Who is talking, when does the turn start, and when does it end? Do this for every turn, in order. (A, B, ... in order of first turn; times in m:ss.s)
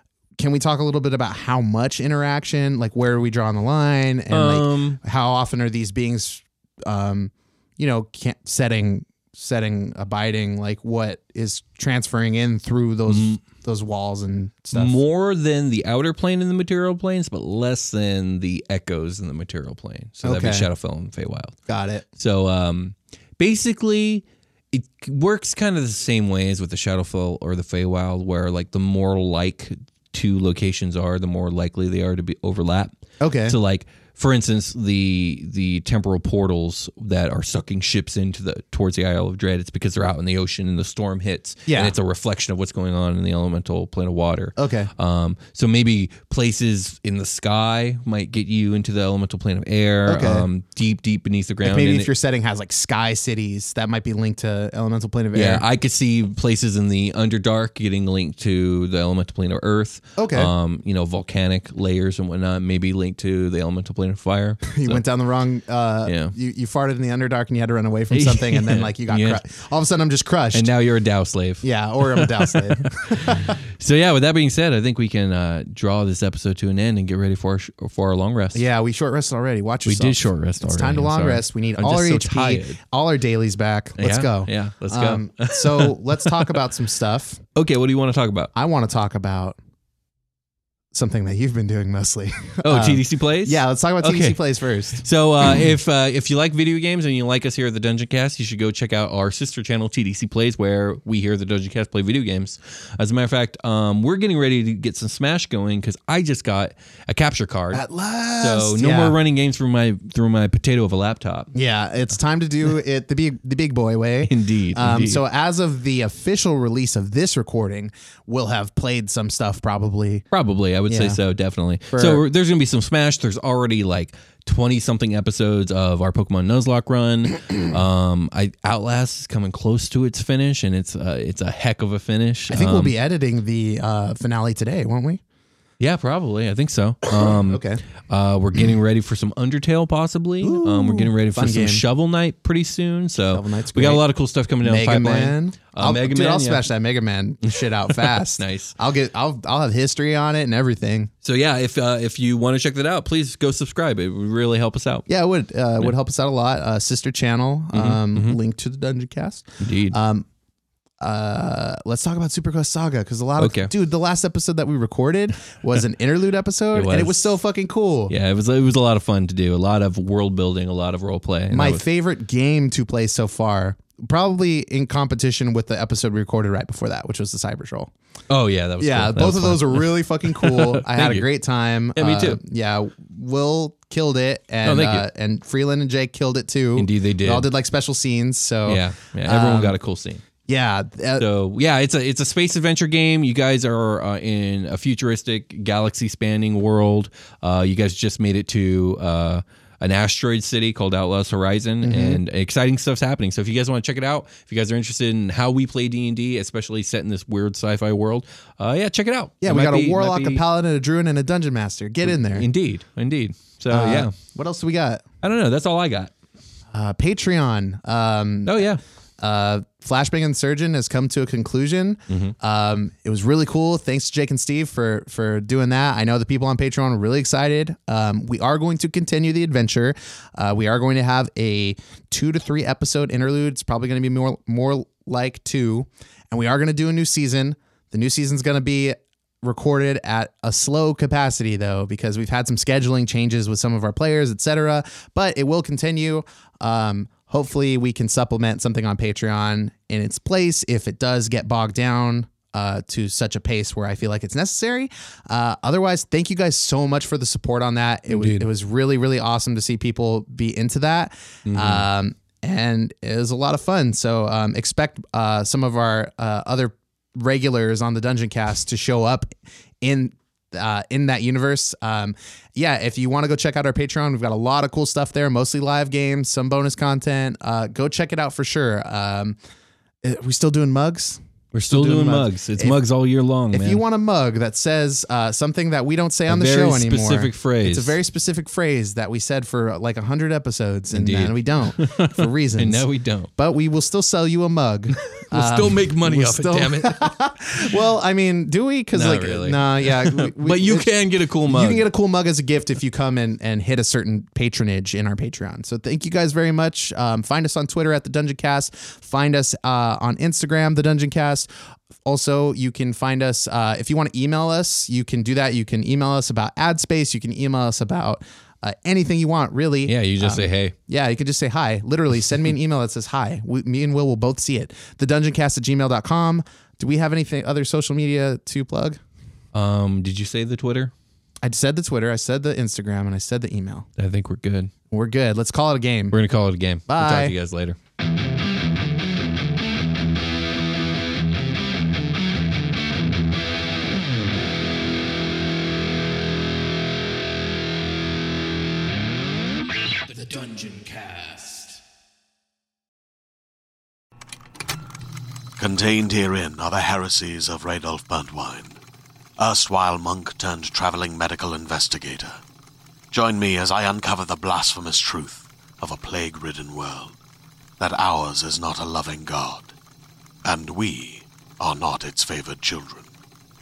0:00.4-0:15.0 A
0:04.3-0:05.0 B
0:13.1-0:13.4 B
0:14.7-0:21.6 B
0:20.2-0:20.7 A
0:21.7-0:22.0 A
0:22.2-0:32.9 B
0:33.2-0:33.6 A
0:33.5-0:52.1 B
0:41.7-0:41.9 A
0:44.6-0:44.9 A
0:50.0-0:50.5 A
0:51.6-0:55.6 A
0:55.3-1:05.0 B
1:00.2-1:00.5 A
1:04.6-1:10.7 A
1:06.0-1:06.3 B
1:08.1-1:09.4 B
1:10.5-1:18.6 B
1:11.6-1:13.6 A
1:18.5-1:27.4 A
1:19.8-1:22.8 B
1:24.0-1:26.6 B
1:27.5-1:28.5 B
1:28.5-1:29.6 A
1:30.9-1:35.0 A
1:32.6-1:34.4 B
1:34.9-1:47.8 B
1:47.7-1:49.2 A
1:48.4-1:51.5 B
1:51.5-2:00.2 A
1:54.2-1:55.2 B
2:00.3-2:12.9 B
2:00.9-2:01.2 A
2:01.9-2:02.2 A
2:12.5-2:15.2 A
2:15.8-2:26.6 B
2:17.3-2:17.8 A
2:20.4-2:21.8 A
2:23.2-2:24.0 A
2:24.6-2:31.1 A
2:27.9-2:28.7 B
2:31.2-2:35.1 B
2:35.1-2:40.2 A
2:37.7-2:38.4 B
2:39.6-2:40.0 B
2:41.0-2:48.1 A
2:43.4-2:43.7 B
2:46.7-2:47.4 B
2:48.1-2:51.8 B
2:51.5-2:57.9 A
2:58.3-3:01.3 B
2:58.8-3:09.8 A
3:01.9-3:02.4 B
3:04.6-3:05.0 B
3:06.7-3:07.5 B
3:08.6-3:10.2 B
3:10.5-3:11.3 A
3:11.2-3:30.4 B
3:21.8-3:22.2 A
3:29.4-3:32.5 A
3:32.0-3:34.1 B
3:33.7-3:35.0 A
3:35.2-3:36.1 B
3:36.7-3:38.7 A
3:38.4-3:38.8 B
3:39.2-4:29.3 A
3:42.1-3:42.3 B
4:18.1-4:18.5 B
4:21.4-4:21.8 B
4:29.8-4:39.4 A
4:40.0-4:42.8 A
4:41.5-4:43.8 B
4:43.5-5:00.9 A
4:46.3-4:48.0 B
4:50.9-4:53.3 B
4:55.2-4:57.1 B
4:58.9-5:01.9 B
5:01.4-5:11.5 A
5:12.0-5:29.0 A
5:19.8-5:20.7 B
5:29.5-5:30.9 B
5:31.4-5:33.9 A
5:34.0-5:34.7 B
5:34.9-5:36.2 A
5:36.1-5:37.8 B
5:36.9-5:37.4 A
5:50.0-5:51.8 B
5:55.6-5:58.8 C
5:59.4-6:02.4 C
6:03.1-6:07.2 C
6:07.8-6:09.7 C
6:10.4-6:13.1 C